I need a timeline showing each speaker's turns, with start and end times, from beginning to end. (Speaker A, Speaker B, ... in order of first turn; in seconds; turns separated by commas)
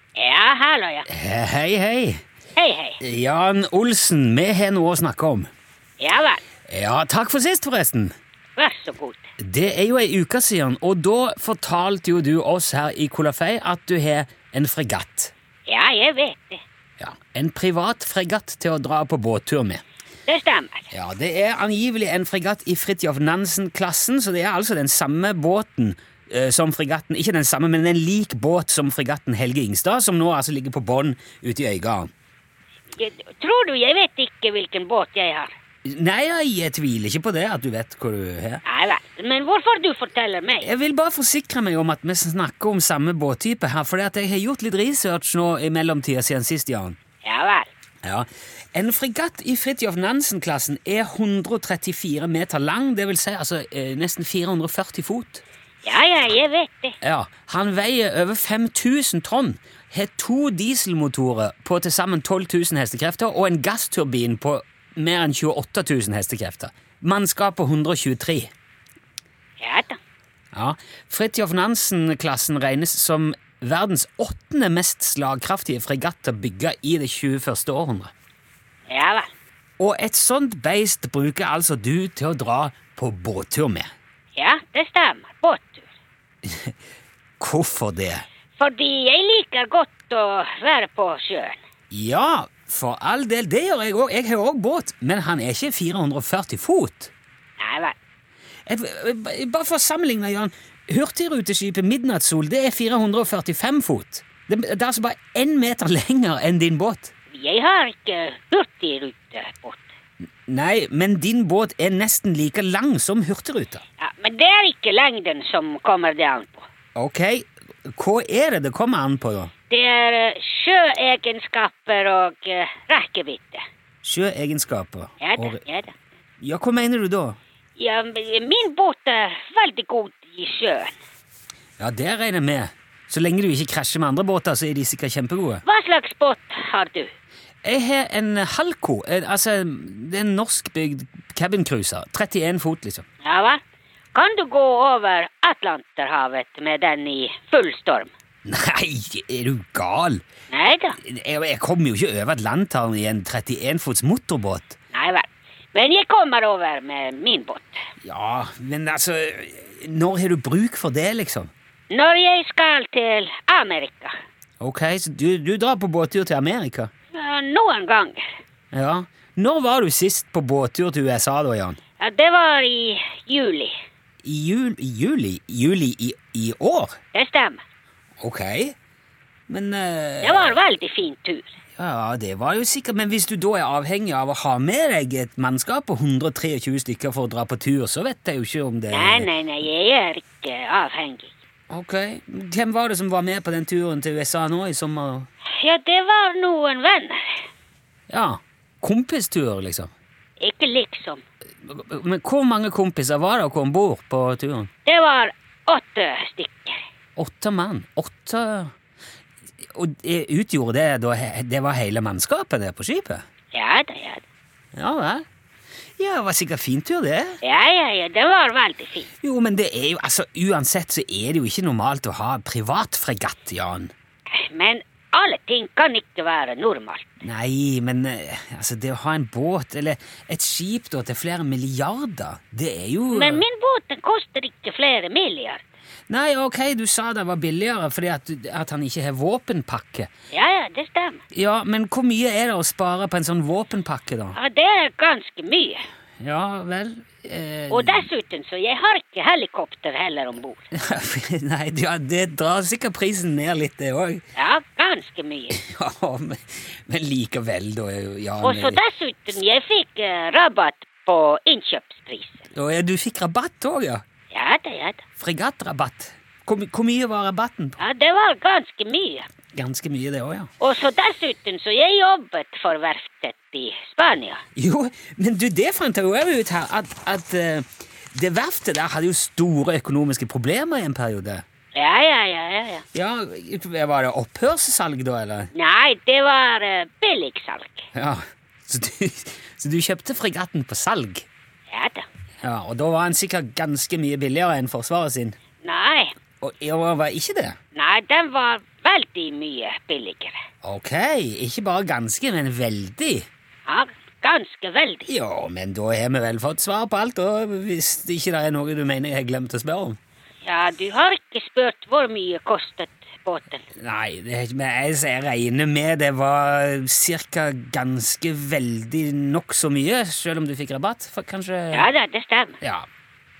Speaker A: 0.2-1.1, Speaker B: 1.1-2.2, Speaker A: 2.5-3.0, Speaker B: 3.0-5.5, Speaker A: 6.0-6.4, Speaker B: 6.7-8.1, Speaker A: 8.6-9.2, Speaker B: 9.4-15.3, Speaker A: 15.7-16.6, Speaker B: 17.0-19.8, Speaker A: 20.3-20.9, Speaker B: 20.9-32.1, Speaker A: 32.9-35.5, Speaker B: 35.8-38.6, Speaker A: 38.6-40.7, Speaker B: 40.6-47.0, Speaker A: 47.2-47.7, Speaker B: 48.0-55.4, Speaker A: 55.8-56.9, Speaker B: 57.0-68.5, Speaker A: 69.6-70.0, Speaker B: 70.5-78.1, Speaker A: 78.9-79.3, Speaker B: 79.8-83.9, Speaker A: 84.3-85.9, Speaker B: 86.4-86.7, Speaker B: 87.4-88.2, Speaker A: 88.6-91.6, Speaker B: 91.9-97.1, Speaker A: 97.6-97.9, Speaker B: 98.7-107.1, Speaker A: 107.3-109.9, Speaker B: 110.5-113.8, Speaker A: 114.0-116.7, Speaker B: 116.9-119.5, Speaker A: 119.7-123.6, Speaker B: 124.0-125.6, Speaker A: 125.2-125.9, Speaker B: 126.4-127.4, Speaker A: 127.8-130.9, Speaker B: 131.8-135.6, Speaker A: 135.6-137.1, Speaker B: 137.6-143.1, Speaker A: 143.2-143.6, Speaker A: 144.1-148.1, Speaker B: 148.4-150.2, Speaker A: 150.5-151.0, Speaker B: 151.0-154.7, Speaker A: 154.9-157.8, Speaker B: 158.0-161.5, Speaker A: 161.9-164.1, Speaker B: 164.6-166.9, Speaker A: 167.1-168.2, Speaker B: 168.7-171.8, Speaker A: 172.0-173.7, Speaker B: 174.2-177.0, Speaker A: 177.1-177.6, Speaker B: 178.2-178.8, Speaker B: 179.5-180.6, Speaker A: 180.2-181.5, Speaker B: 181.8-189.3, Speaker A: 188.9-191.3, Speaker B: 191.7-195.3, Speaker A: 195.6-197.4, Speaker B: 198.1-199.9, Speaker A: 200.4-201.2, Speaker B: 201.7-204.7, Speaker A: 204.8-206.8, Speaker B: 207.2-208.7, Speaker B: 209.6-213.2, Speaker A: 213.5-214.2, Speaker B: 214.7-215.2, Speaker B: 216.0-217.4, Speaker A: 217.4-219.1, Speaker B: 219.2-223.9, Speaker A: 224.3-227.2, Speaker B: 227.2-233.4, Speaker A: 233.1-235.6, Speaker B: 236.1-240.1, Speaker A: 240.3-241.2, Speaker B: 241.3-244.4, Speaker A: 244.3-245.8, Speaker B: 246.2-248.1, Speaker A: 247.7-250.7, Speaker B: 250.7-254.2, Speaker A: 254.3-255.6, Speaker B: 255.6-258.8, Speaker A: 258.4-262.5, Speaker B: 262.5-264.0, Speaker A: 264.3-265.0, Speaker B: 265.2-267.8, Speaker A: 267.8-269.3, Speaker B: 269.5-270.5, Speaker A: 270.6-274.4, Speaker B: 274.6-281.4, Speaker A: 281.7-282.8, Speaker B: 282.9-285.5, Speaker A: 285.5-287.9, Speaker B: 287.9-291.3, Speaker A: 291.7-292.1, Speaker B: 292.4-295.4, Speaker A: 295.6-296.1, Speaker B: 296.4-297.6, Speaker A: 297.7-300.3, Speaker B: 300.6-303.3, Speaker A: 303.6-305.1, Speaker B: 305.1-310.0, Speaker A: 310.4-313.6, Speaker B: 313.8-321.9, Speaker A: 321.7-322.6